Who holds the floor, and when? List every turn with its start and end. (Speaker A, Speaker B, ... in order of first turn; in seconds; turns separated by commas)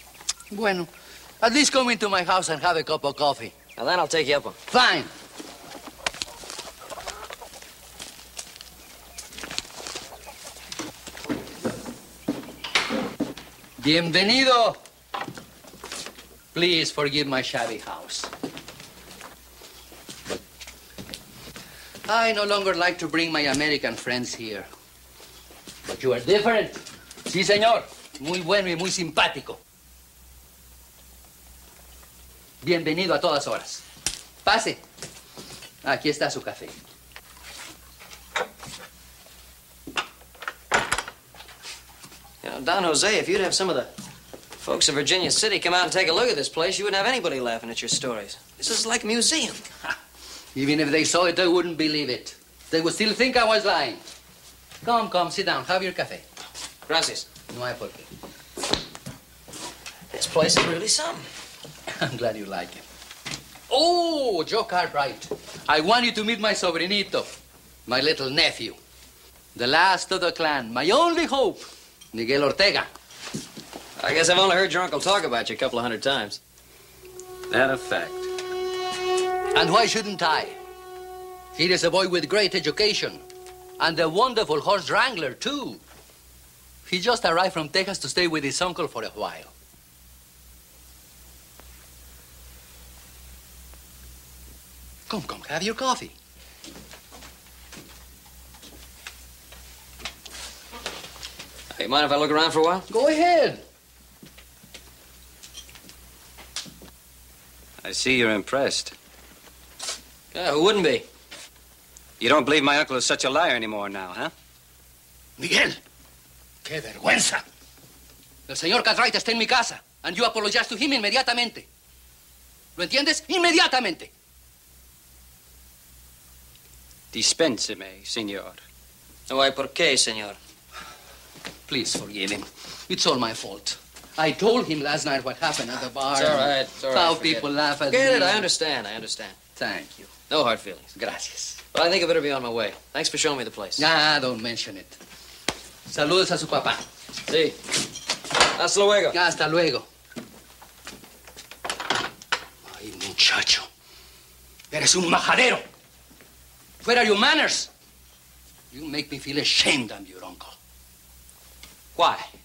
Speaker A: 0.5-0.9, Speaker A: 1.4-3.5, Speaker B: 3.8-4.6, Speaker A: 4.7-5.1, Speaker A: 13.8-14.8, Speaker A: 16.5-18.3, Speaker A: 22.1-24.7, Speaker A: 25.9-29.6, Speaker A: 32.6-33.8, Speaker A: 34.4-34.8, Speaker A: 35.8-36.8, Speaker B: 42.4-43.9, Speaker B: 44.6-49.7, Speaker A: 50.5-54.0, Speaker A: 54.8-56.2, Speaker B: 56.9-57.3, Speaker A: 57.5-58.1, Speaker B: 60.1-61.3, Speaker A: 61.9-62.8, Speaker A: 63.7-67.3, Speaker A: 67.9-68.8, Speaker A: 69.5-72.9, Speaker B: 74.0-76.4, Speaker B: 77.5-78.3, Speaker A: 79.5-80.6, Speaker A: 81.6-83.2, Speaker A: 83.8-85.8, Speaker A: 86.9-89.5, Speaker A: 95.1-96.1, Speaker B: 101.7-102.9, Speaker A: 102.9-103.6, Speaker C: 107.8-108.9, Speaker B: 110.3-111.1, Speaker C: 112.2-114.3, Speaker A: 115.4-115.8, Speaker A: 116.7-117.4, Speaker A: 118.5-121.7, Speaker A: 122.8-124.1, Speaker C: 127.1-128.6, Speaker B: 129.3-130.4, Speaker A: 131.7-138.5, Speaker B: 136.1-139.4, Speaker A: 139.6-140.1, Speaker B: 140.3-140.9, Speaker A: 140.9-141.6, Speaker B: 141.7-143.8, Speaker A: 143.8-145.0, Speaker A: 145.9-146.8, Speaker B: 147.3-147.6, Speaker B: 148.5-149.2, Speaker A: 149.1-149.9, Speaker A: 152.7-153.7, Speaker A: 154.7-155.6, Speaker A: 156.8-157.7, Speaker A: 158.7-160.6, Speaker C: 161.9-162.3